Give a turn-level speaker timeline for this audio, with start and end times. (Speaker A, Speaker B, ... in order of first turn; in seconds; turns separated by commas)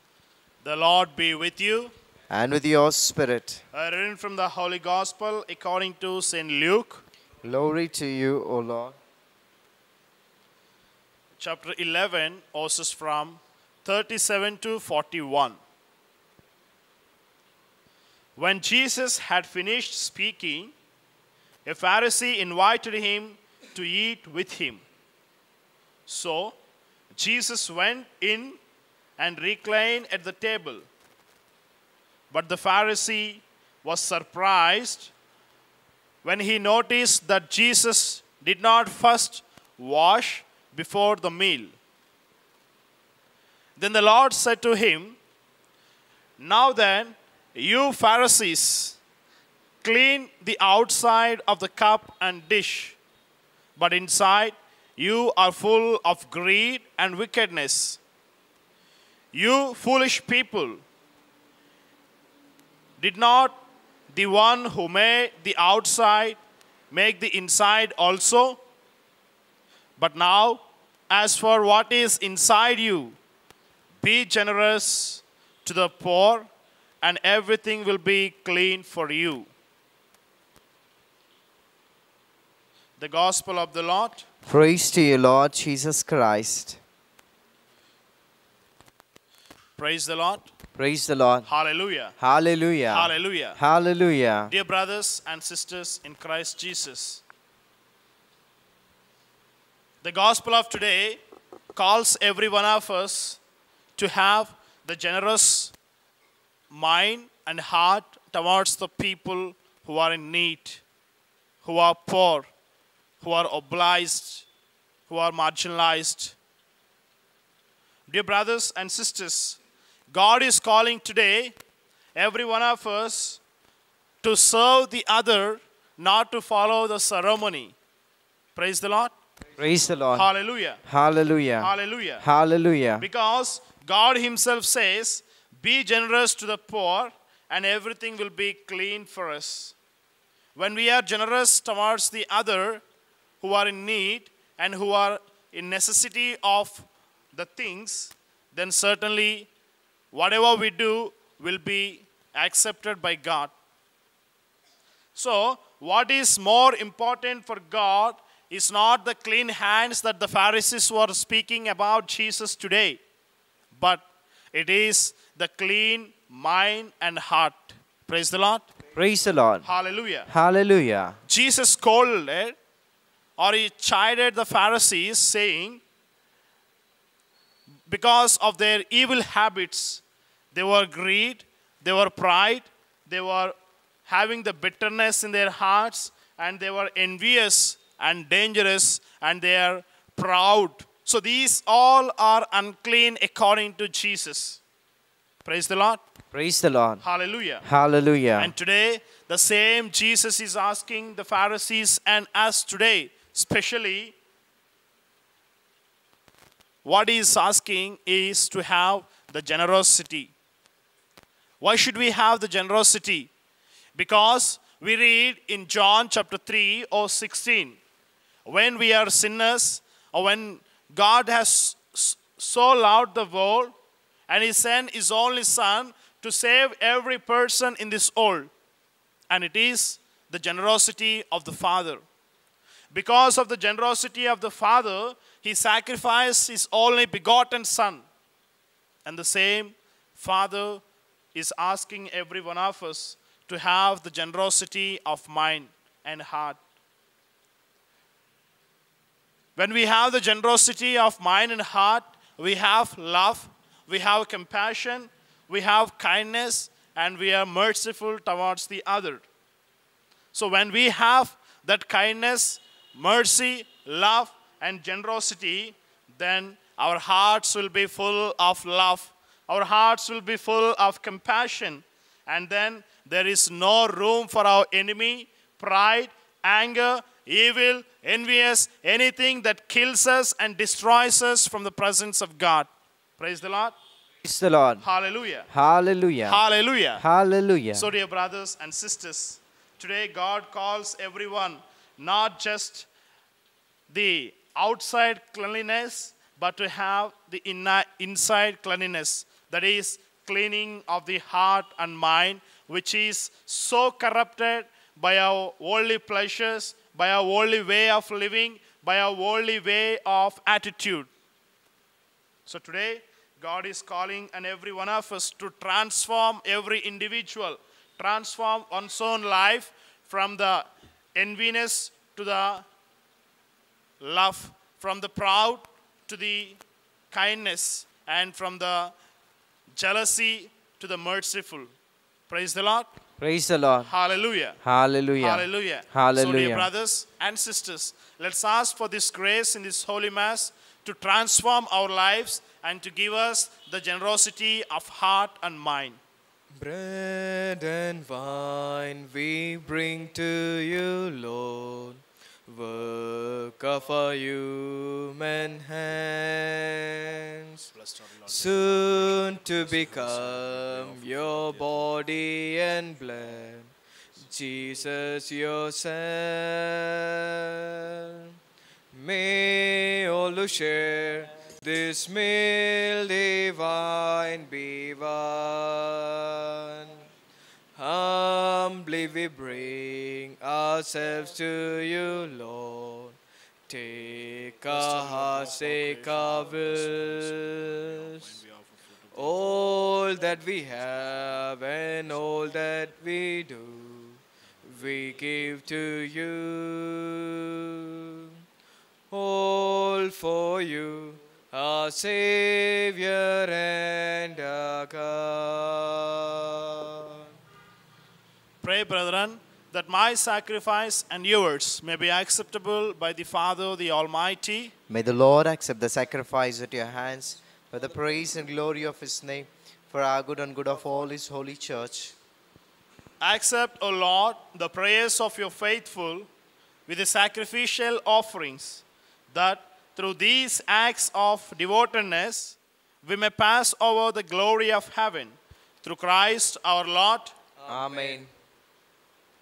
Speaker A: 0.6-1.9, Speaker B: 2.3-3.6, Speaker A: 3.7-7.0, Speaker B: 7.4-9.0, Speaker A: 11.4-15.6, Speaker A: 18.4-20.7, Speaker A: 21.6-24.8, Speaker A: 26.1-26.5, Speaker A: 27.1-28.6, Speaker A: 29.2-30.9, Speaker A: 32.3-35.1, Speaker A: 36.2-41.7, Speaker A: 43.8-45.2, Speaker A: 46.4-49.0, Speaker A: 49.8-53.0, Speaker A: 53.8-58.0, Speaker A: 59.3-60.8, Speaker A: 63.0-63.6, Speaker A: 64.1-66.4, Speaker A: 66.9-68.6, Speaker A: 70.0-73.2, Speaker A: 74.0-76.5, Speaker A: 77.0-79.5, Speaker A: 83.0-84.2, Speaker B: 84.5-86.8, Speaker A: 89.8-90.5, Speaker B: 90.7-91.5, Speaker A: 91.5-92.1, Speaker B: 92.2-94.5, Speaker A: 92.9-93.6, Speaker A: 94.5-97.2, Speaker A: 100.0-101.2, Speaker A: 101.7-103.4, Speaker A: 104.0-105.7, Speaker A: 106.7-110.8, Speaker A: 111.6-112.5, Speaker A: 113.2-114.4, Speaker A: 115.1-116.3, Speaker A: 118.1-119.6, Speaker A: 120.1-121.5, Speaker A: 122.1-123.4, Speaker A: 124.2-127.7, Speaker A: 128.5-129.1, Speaker B: 129.6-130.3, Speaker A: 130.1-130.8, Speaker B: 130.8-133.1, Speaker A: 131.6-132.2, Speaker A: 133.0-139.7, Speaker A: 140.5-142.8, Speaker A: 143.4-149.5, Speaker A: 150.1-153.5, Speaker A: 155.2-163.0, Speaker A: 163.7-168.7, Speaker B: 168.9-169.7, Speaker A: 169.6-170.3, Speaker B: 170.2-171.2, Speaker A: 171.3-172.5, Speaker A: 173.4-175.8, Speaker A: 177.9-183.5, Speaker A: 184.1-194.6, Speaker A: 195.4-196.0, Speaker B: 196.3-197.0, Speaker A: 197.0-197.6, Speaker B: 197.6-198.5, Speaker A: 198.4-204.1, Speaker A: 206.8-210.3, Speaker A: 211.6-213.3, Speaker A: 213.9-217.8, Speaker A: 218.4-223.7, Speaker A: 224.3-228.5, Speaker A: 229.3-232.0, Speaker A: 232.9-238.0, Speaker A: 239.0-240.8, Speaker A: 241.3-246.6, Speaker A: 249.6-259.2, Speaker A: 260.3-283.8, Speaker B: 284.2-284.8, Speaker A: 284.8-285.5, Speaker B: 285.5-286.4, Speaker A: 286.2-287.0, Speaker B: 287.0-287.9, Speaker A: 287.7-292.9, Speaker A: 293.9-311.1, Speaker A: 312.4-322.6, Speaker A: 324.0-326.6, Speaker A: 327.1-328.9, Speaker A: 329.7-331.7, Speaker A: 332.3-332.9, Speaker B: 333.2-333.9, Speaker A: 333.9-334.6, Speaker B: 334.6-336.7, Speaker A: 335.2-346.0, Speaker C: 346.5-357.6, Speaker A: 357.8-361.9, Speaker C: 358.2-363.7, Speaker C: 364.2-368.2, Speaker C: 368.9-377.1, Speaker C: 377.8-383.2, Speaker C: 383.7-388.3, Speaker A: 384.7-389.4, Speaker C: 389.1-398.3, Speaker C: 399.1-407.2, Speaker A: 408.6-414.7, Speaker B: 414.9-422.1, Speaker A: 423.2-426.3, Speaker A: 426.9-437.3, Speaker C: 437.6-438.3, Speaker B: 437.7-438.3